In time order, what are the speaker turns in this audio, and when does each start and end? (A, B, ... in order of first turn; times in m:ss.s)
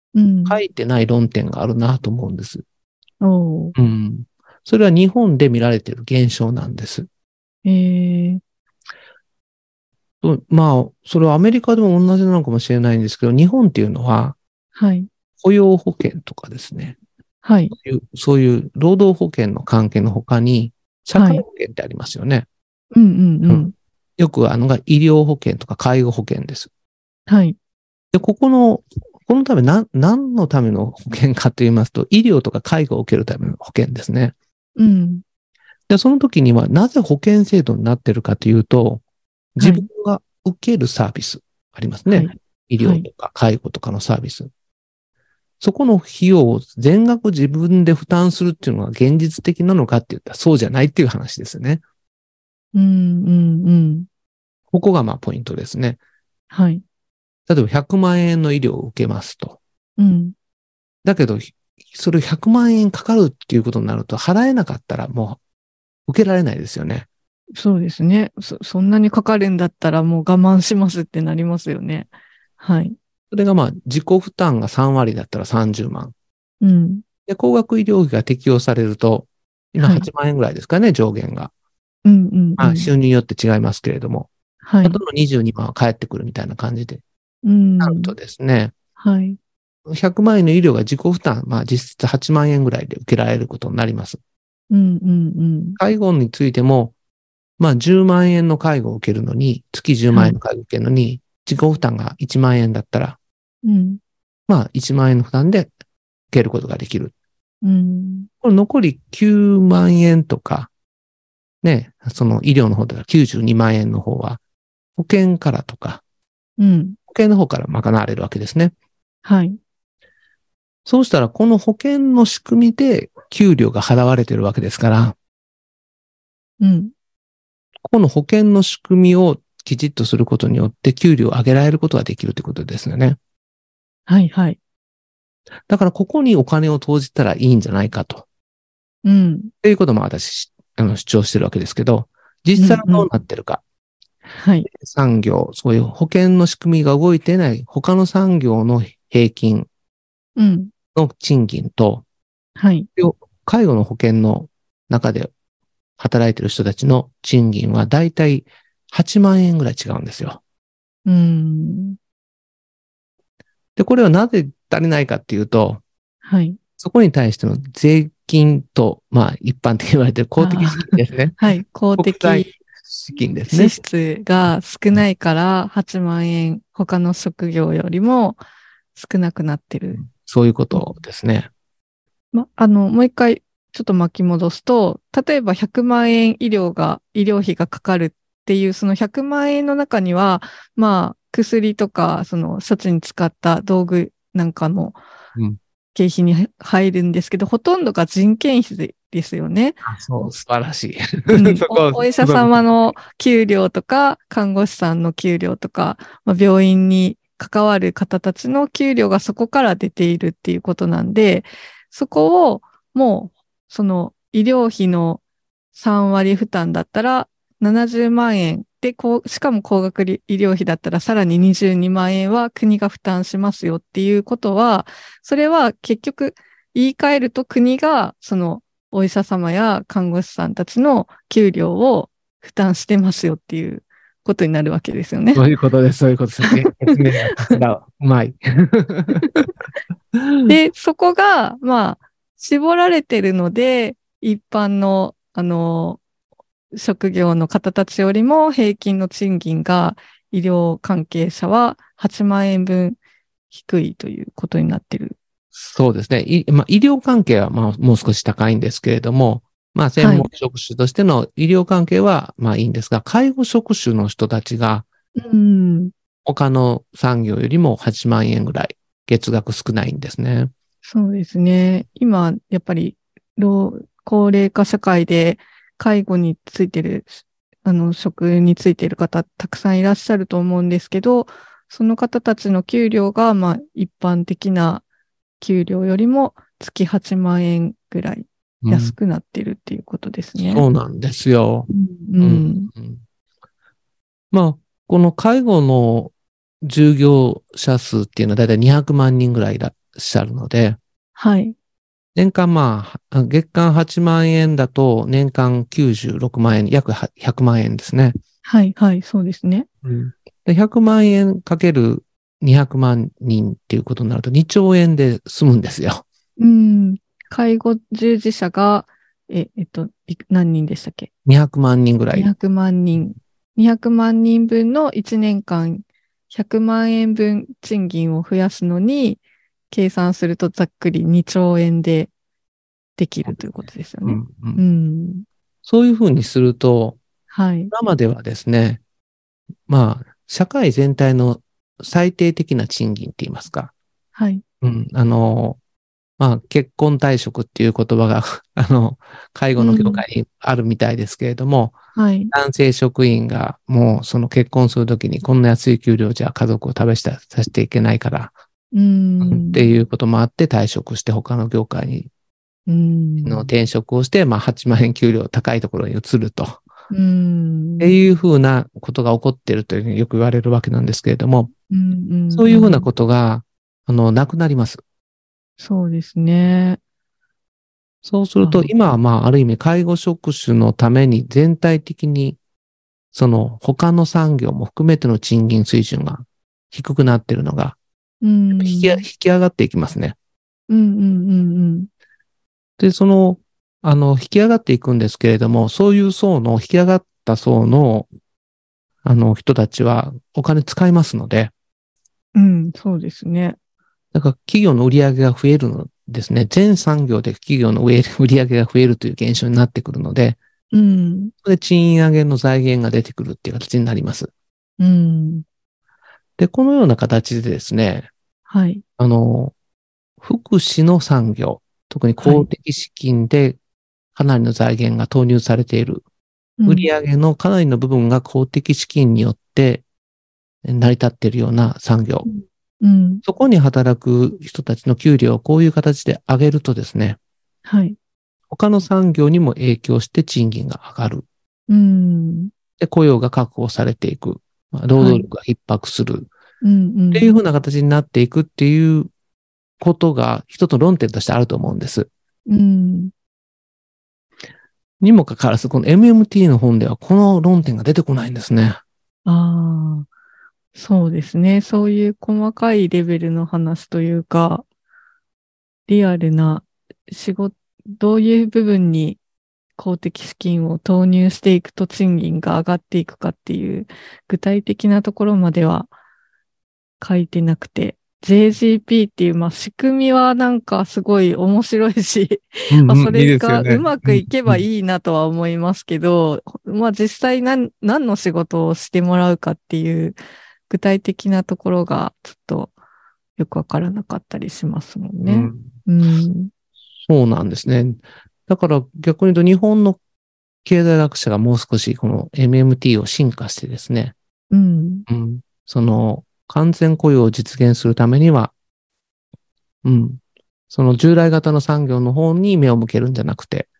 0:00.1-0:00.6 A
0:00.4-0:02.6 B
0:03.2-0:03.7 A
0:03.7-0:07.1 B
0:07.6-0:08.4 A
0:10.2-0:14.4 B
0:14.7-0:15.1 A
0:15.4-0:17.0 B
0:17.4-0:17.7 A
0:17.7-0:22.4 B
0:21.1-0:21.4 A
0:22.9-0:23.7 A
0:24.2-0:26.7 B
0:27.3-0:27.6 A
0:28.1-0:34.3 B
0:34.8-0:35.2 A
0:35.9-0:39.0 B
0:39.5-0:44.5 B
0:39.6-0:39.9 A
0:42.1-0:43.1 A
0:45.6-0:51.8 B
0:52.7-0:54.1 A
0:54.7-0:56.0 B
0:56.5-0:56.8 A
0:57.5-0:59.6 B
1:00.0-1:00.3 A
1:01.0-1:05.4 B
1:06.1-1:07.1 B
1:07.5-1:13.0 A
1:13.3-1:16.1 B
1:16.6-1:17.0 A
1:17.2-1:21.5 B
1:19.8-1:20.1 A
1:22.0-1:22.9 A
1:22.6-1:24.3 B
1:24.6-1:25.0 A
1:24.8-1:27.0 B
1:27.4-1:28.1 A
1:27.8-1:28.7 B
1:29.0-1:29.4 A
1:29.8-1:34.2 B
1:34.7-1:35.8 A
1:35.8-1:36.9 B
1:37.6-1:43.2 B
1:40.1-1:40.4 A
1:43.6-1:44.0 A
1:44.5-1:45.7 B
1:46.3-1:47.1 B
1:47.6-1:48.3 A
1:48.4-1:50.7 B
1:51.6-1:54.4 B
1:55.0-1:56.0 B
1:56.6-1:57.0 A
1:57.1-1:58.7 B
1:59.2-1:59.6 A
2:00.8-2:05.2 B
2:06.6-2:06.9 A
2:07.8-2:13.2 B
2:14.1-2:14.6 A
2:15.7-2:18.2 B
2:19.0-2:19.5 A
2:19.6-2:23.6 B
2:22.6-2:23.1 A
2:24.4-2:24.7 A
2:24.6-2:29.7 B
2:30.4-2:30.7 A
2:30.9-2:32.0 B
2:32.6-2:32.9 A
2:33.0-2:35.3 B
2:36.0-2:40.4 B
2:41.0-2:42.0 A
2:43.8-2:45.8 B
2:46.2-2:46.6 A
2:46.8-2:53.8 B
2:50.4-2:52.6 A
2:53.5-2:58.4 A
2:58.9-3:00.0 A
2:59.9-3:01.5 B
3:02.3-3:15.0 A
3:15.9-3:19.8 A
3:19.8-3:22.8 B
3:21.3-3:35.2 A
3:35.7-3:55.5 A
3:55.3-3:59.5 B
3:56.4-3:57.6 A
4:00.2-4:00.6 B
4:00.4-4:06.0 A
4:06.7-4:13.0 A
4:13.5-4:15.2 A
4:15.5-4:24.8 B
4:20.0-4:20.3 A
4:25.2-4:25.9 A
4:26.2-4:30.5 B
4:30.8-4:44.8 A
4:45.4-4:50.7 A
4:48.6-4:48.9 B
4:50.4-4:51.7 B
4:51.7-4:52.7 A
4:52.2-4:53.0 B
4:54.3-5:00.8 B
5:01.2-5:01.5 A
5:02.1-5:08.1 B
5:08.4-5:09.7 A
5:09.8-5:16.0 B
5:16.4-5:21.1 A
5:21.2-5:22.3 B
5:22.1-5:32.1 A
5:33.0-5:35.2 A
5:34.0-5:34.6 B
5:35.6-5:37.0 B
5:37.3-5:37.7 A
5:37.7-5:38.8 B
5:39.7-5:43.7 B
5:44.1-5:44.4 A
5:44.6-5:45.6 B
5:46.2-5:51.8 B
5:49.6-5:50.0 A
5:51.9-5:52.3 A
5:52.3-5:58.3 B
5:58.7-5:59.7 A
5:59.2-6:02.1 B
6:02.7-6:03.5 A
6:03.2-6:06.6 B
6:06.9-6:08.0 A
6:07.8-6:11.5 B
6:11.7-6:12.9 A
6:12.3-6:14.8 B
6:15.6-6:16.8 A
6:18.0-6:22.4 B
6:18.4-6:18.7 A
6:23.1-6:27.8 B
6:28.2-6:29.0 A
6:28.5-6:30.2 B
6:30.7-6:31.9 A
6:32.8-6:38.1 B
6:39.0-6:41.5 B
6:42.3-6:43.6 A
6:44.1-6:50.4 B
6:50.7-6:51.3 A
6:51.4-6:54.3 B
6:54.8-6:55.4 A
6:56.4-6:58.1 B
6:58.5-6:58.8 A
6:59.0-6:59.5 B
7:00.2-7:03.6 B
7:02.2-7:02.5 A
7:04.1-7:06.0 B
7:06.6-7:06.9 A
7:06.6-7:09.8 B
7:10.6-7:12.3 B
7:12.2-7:13.2 A
7:13.2-7:17.2 B
7:17.6-7:18.0 A
7:18.5-7:21.2 B
7:21.7-7:22.5 A
7:22.8-7:26.3 B
7:25.0-7:25.3 A
7:26.6-7:27.4 A
7:27.1-7:29.1 B
7:29.8-7:32.1 B
7:32.5-7:33.1 A
7:35.0-7:38.8 B
7:39.2-7:40.1 A
7:40.7-7:44.6 A
7:45.9-7:49.2 A
7:49.8-7:55.9 A
7:57.0-8:10.2 A
8:02.7-8:04.6 B
8:10.7-8:12.7 A
8:13.4-8:16.5 A
8:15.2-8:15.7 B
8:17.0-8:20.0 B
8:20.6-8:24.1 B
8:24.5-8:25.0 A
8:25.1-8:28.5 B
8:29.8-8:33.7 B